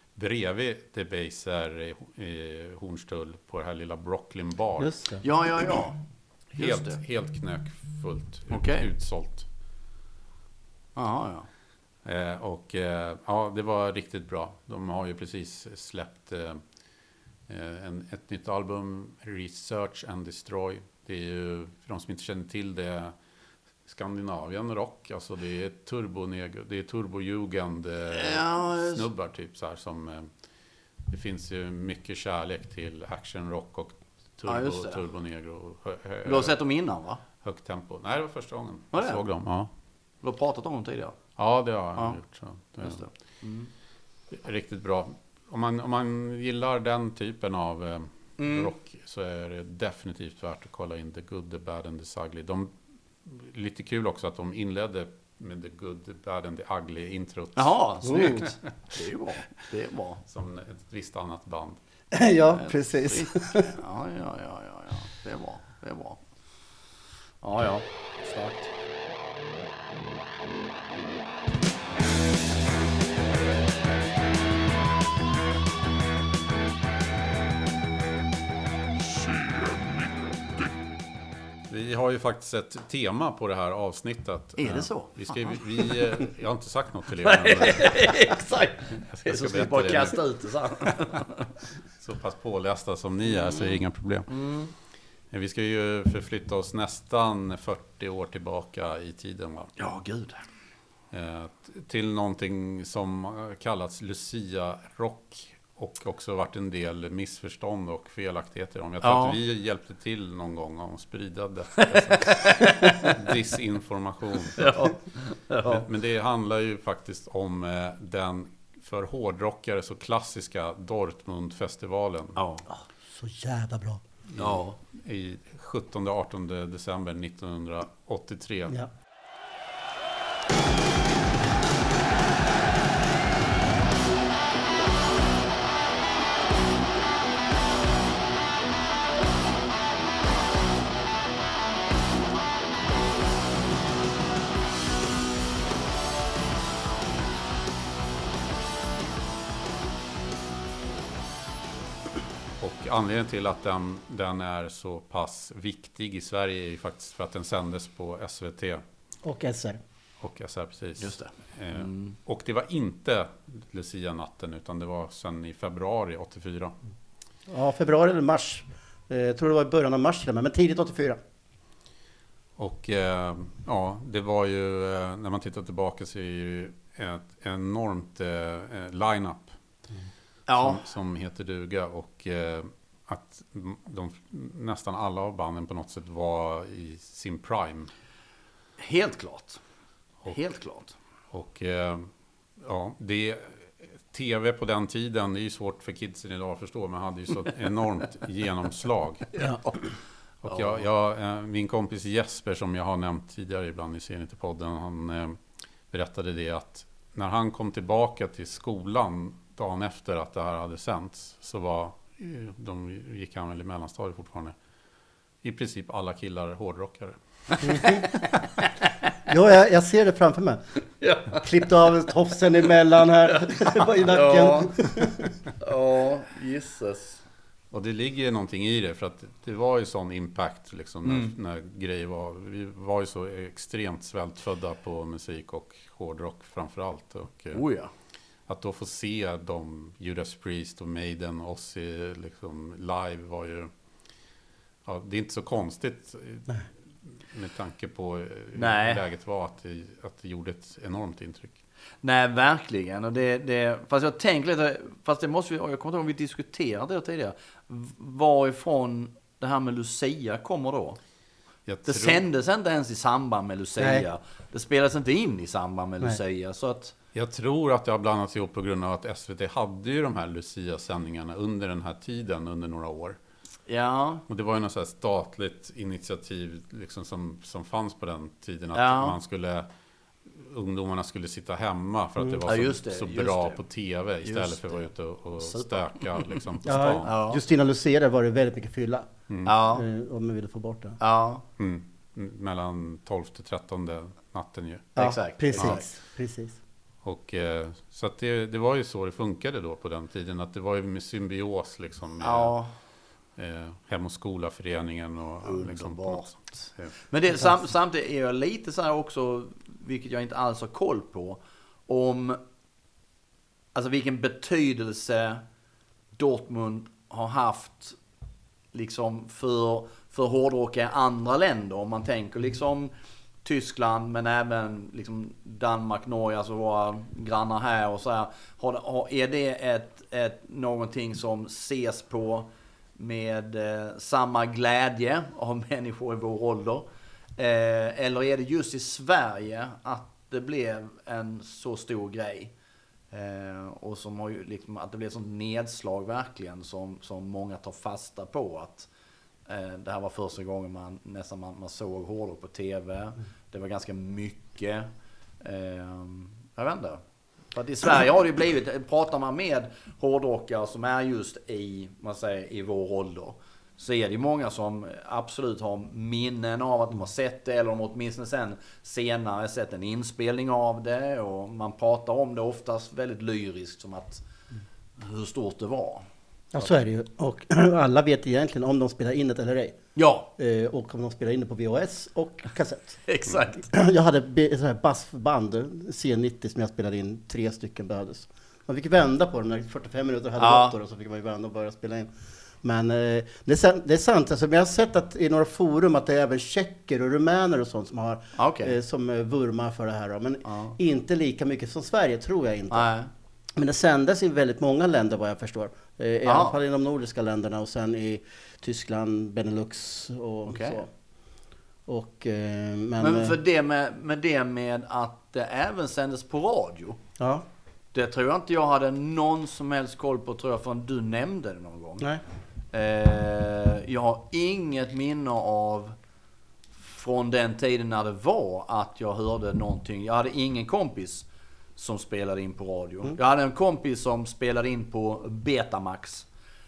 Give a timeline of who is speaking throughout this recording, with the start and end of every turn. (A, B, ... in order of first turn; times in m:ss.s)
0:00.2-0:04.9 A
0:04.8-0:05.2 B
0:05.2-0:06.0 C
0:06.6-0:09.5 A
0:06.6-0:07.0 C
0:08.5-0:08.9 C
0:11.0-0:11.5 C
0:12.0-0:16.6 A
0:17.5-0:23.1 A
0:23.9-0:30.3 A
0:28.1-0:29.0 C
0:31.1-0:36.6 A
0:34.5-0:35.0 C
0:36.2-0:37.2 C
0:37.4-0:39.7 A
0:38.9-0:39.2 C
0:40.2-0:41.2 C
0:41.4-0:43.1 A
0:42.8-0:43.7 C
0:44.3-0:52.7 A
0:48.4-0:48.7 C
0:53.2-0:58.5 A
0:57.6-1:00.2 C
0:58.1-0:58.5 B
1:00.3-1:01.8 A
1:02.1-1:03.7 B
1:02.6-1:06.2 C
1:07.4-1:08.7 C
1:21.7-1:28.4 A
1:24.6-1:25.1 C
1:27.2-1:31.4 C
1:29.0-1:30.2 A
1:32.0-1:34.5 A
1:34.3-1:34.7 C
1:35.3-1:39.7 A
1:39.8-1:40.4 C
1:41.1-1:54.9 A
1:49.0-1:49.4 C
1:52.2-1:53.2 C
1:54.6-1:55.8 C
1:55.6-2:02.4 A
2:02.4-2:02.7 C
2:03.1-2:04.0 B
2:04.3-2:08.8 A
2:04.4-2:04.8 C
2:32.6-2:38.8 A
2:39.2-2:39.8 B
2:40.2-2:46.8 A
2:41.0-2:42.2 C
2:47.5-2:51.2 B
2:52.6-2:59.6 A
3:00.5-3:00.8 C
3:00.6-3:07.9 A
3:08.8-3:09.6 C
3:10.3-3:10.9 C
3:11.3-3:19.3 A
3:19.4-3:19.8 C
3:20.4-3:25.4 A
3:20.4-3:20.8 C
3:25.9-3:34.6 A
3:35.4-3:37.2 A
3:37.6-3:38.0 B
3:37.7-3:38.7 C
3:39.3-3:40.6 B
3:41.0-3:41.5 C
3:41.4-3:45.3 B
3:43.2-3:44.7 C
3:45.6-3:47.2 C
3:47.7-3:57.6 A
3:51.0-3:51.3 C
3:57.5-3:57.9 C
3:58.5-4:03.7 A
4:04.8-4:11.6 A
4:08.6-4:09.0 C
4:12.0-4:21.0 C
4:21.7-4:22.2 A
4:21.8-4:26.9 C
4:23.8-4:24.0 B
4:27.1-4:33.2 A
4:33.7-4:34.2 C
4:34.3-4:39.7 A
4:38.7-4:39.2 C
4:40.3-4:47.1 A
4:42.5-4:43.6 C
4:44.2-4:44.8 C
4:45.4-4:46.4 C
4:46.6-4:49.1 B
4:47.0-4:47.4 C
4:49.3-4:49.5 A
4:49.5-4:49.8 C
4:49.7-4:51.0 B
4:51.0-4:51.4 C
4:51.6-4:55.0 A
4:55.0-4:55.8 C
4:55.0-4:56.6 B
4:55.5-4:55.8 A
4:57.0-5:02.6 A
5:02.2-5:02.7 C
5:03.4-5:07.0 A
5:05.4-5:12.4 C
5:13.7-5:15.4 C
5:16.2-5:18.0 C
5:18.7-5:22.9 C
5:23.4-5:42.5 C
5:43.1-5:48.9 C
5:49.5-5:54.9 C
5:55.4-6:14.2 C
6:15.0-6:16.0 C
6:16.5-6:19.8 B
6:20.0-6:20.3 C
6:20.4-6:23.0 B
6:23.1-6:23.7 C
6:23.6-6:42.9 B
6:30.4-6:30.8 C
6:38.4-6:38.8 C
6:40.4-6:40.8 C
6:42.7-6:43.1 C
6:43.6-6:50.9 B
6:46.2-6:46.6 C
6:50.5-6:50.8 C
6:51.9-6:53.4 B
6:53.0-6:57.0 C
6:57.2-6:57.4 B
6:57.9-7:02.1 C
7:02.7-7:06.0 C
7:06.8-7:16.3 C